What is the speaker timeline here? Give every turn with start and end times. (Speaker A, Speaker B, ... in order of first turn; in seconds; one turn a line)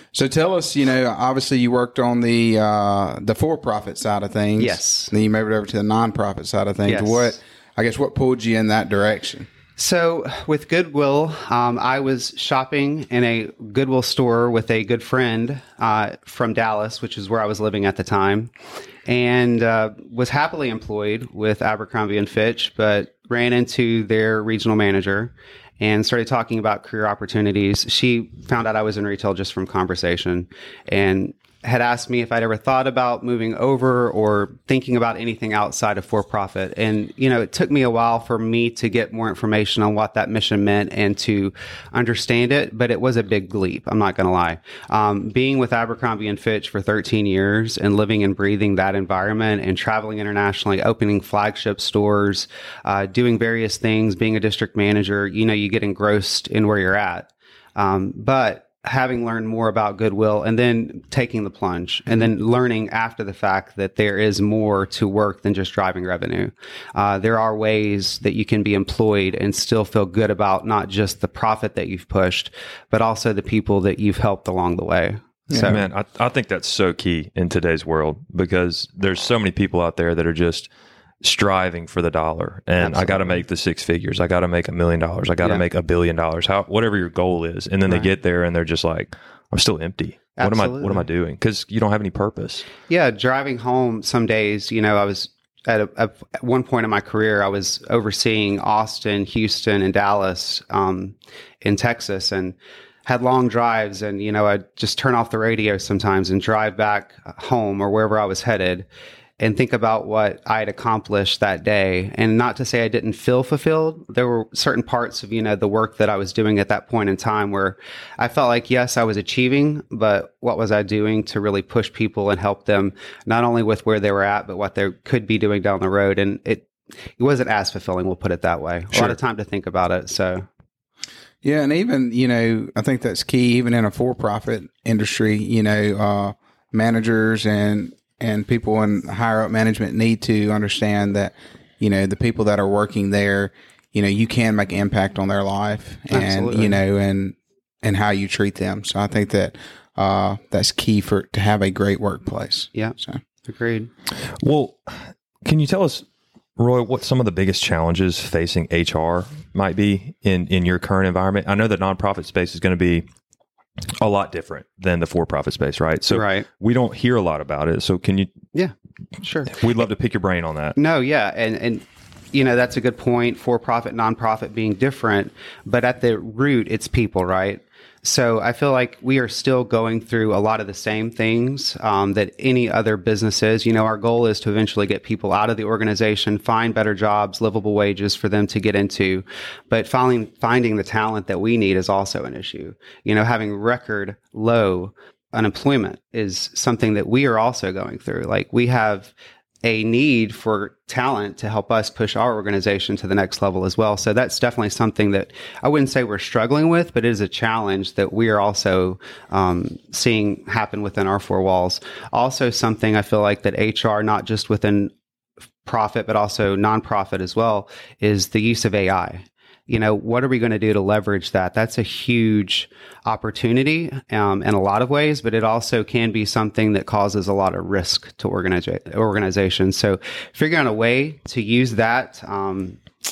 Speaker A: 0.1-9.5
Speaker B: 4.6-5.1
Speaker B: 6.8-7.4
Speaker B: 9.8-18.5
Speaker B: 19.1-75.9
Speaker A: 75.5-75.8
Speaker C: 75.7-80.7
Speaker C: 81.2-92.7
Speaker B: 82.8-83.4
Speaker B: 90.4-91.0
Speaker B: 92.9-108.9
Speaker B: 109.4-130.4
Speaker A: 131.4-153.2
Speaker B: 146.1-146.8
Speaker B: 152.7-153.9
Speaker C: 154.4-156.0
Speaker C: 156.6-163.1
Speaker C: 164.0-168.3
Speaker B: 166.1-166.4
Speaker B: 168.5-169.6
Speaker C: 169.5-170.8
Speaker B: 170.8-199.1
Speaker B: 199.6-214.9
Speaker B: 215.6-232.8